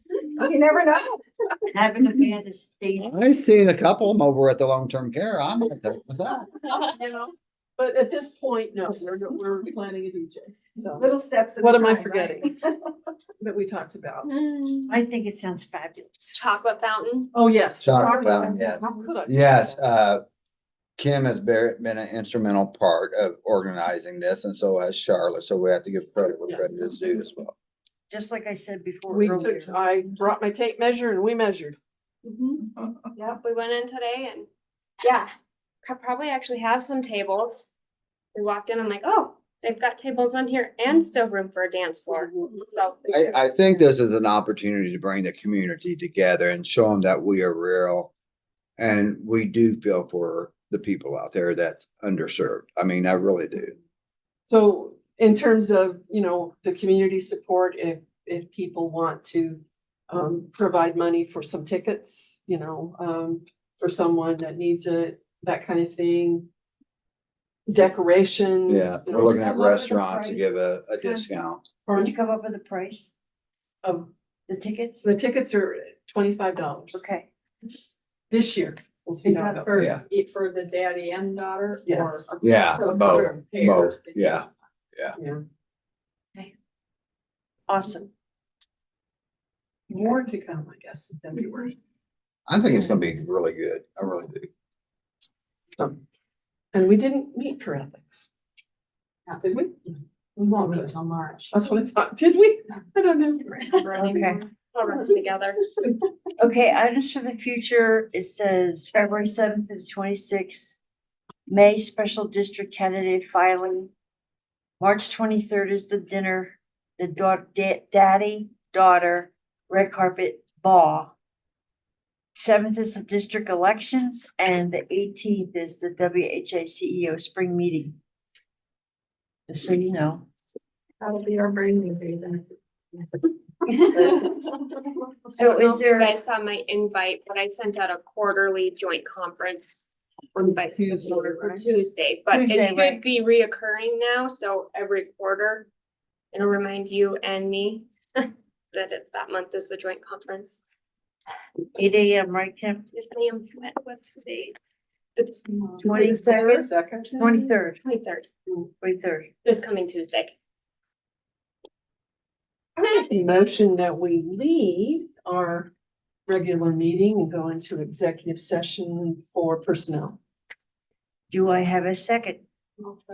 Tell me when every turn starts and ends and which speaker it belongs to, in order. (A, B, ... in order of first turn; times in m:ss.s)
0:00.3-0:01.2 A
0:01.7-0:03.2 B
0:03.0-0:06.5 C
0:06.8-0:12.5 D
0:10.9-0:12.5 A
0:13.4-0:14.3 D
0:14.3-0:14.9 A
0:14.9-0:16.4 B
0:16.3-0:17.3 E
0:17.3-0:19.8 D
0:17.8-0:20.2 C
0:18.0-0:19.0 A
0:21.0-0:27.5 C
0:28.1-0:29.8 B
0:29.1-0:31.8 D
0:33.2-0:34.5 E
0:35.0-0:35.3 E
0:35.8-0:37.7 E
0:38.3-0:43.0 E
0:43.1-0:48.1 C
0:48.8-0:53.8 C
0:54.5-1:06.5 D
1:07.7-1:09.4 D
1:08.7-1:11.6 C
1:09.1-1:11.3 B
1:11.8-1:12.1 D
1:11.9-1:13.1 B
1:13.8-1:14.1 D
1:14.5-1:15.1 B
1:15.0-1:17.0 D
1:16.9-1:17.3 B
1:18.3-1:19.9 D
1:19.2-1:24.4 A
1:19.8-1:20.0 C
1:21.8-1:23.7 D
1:22.4-1:25.2 C
1:25.1-1:25.4 D
1:27.7-1:28.1 B
1:29.9-1:31.7 D
1:32.5-1:34.5 C
1:35.7-1:36.0 D
1:36.7-1:38.3 D
1:39.3-1:39.9 D
1:40.4-1:41.5 A
1:40.6-1:40.9 D
1:41.5-1:44.2 D
1:43.9-1:45.6 E
1:44.0-1:44.4 B
1:46.4-1:50.8 B
1:51.5-1:53.9 B
1:54.8-2:01.1 B
2:02.3-2:08.0 B
2:09.5-2:10.3 B
2:11.0-2:12.5 A
2:13.7-2:14.2 A
2:13.8-2:14.2 B
2:15.3-2:19.8 E
2:15.3-2:16.2 B
2:20.3-2:25.7 E
2:20.7-2:21.7 D
2:22.3-2:23.0 B
2:26.3-2:30.6 E
2:31.7-2:32.9 B
2:32.9-2:34.6 E
2:35.2-2:36.2 E
2:35.8-2:37.8 B
2:35.8-2:37.4 D
2:37.2-2:38.3 E
2:38.8-2:39.3 B
2:39.4-2:40.3 E
2:42.8-2:45.7 D
2:46.3-2:50.2 D
2:51.3-2:52.4 B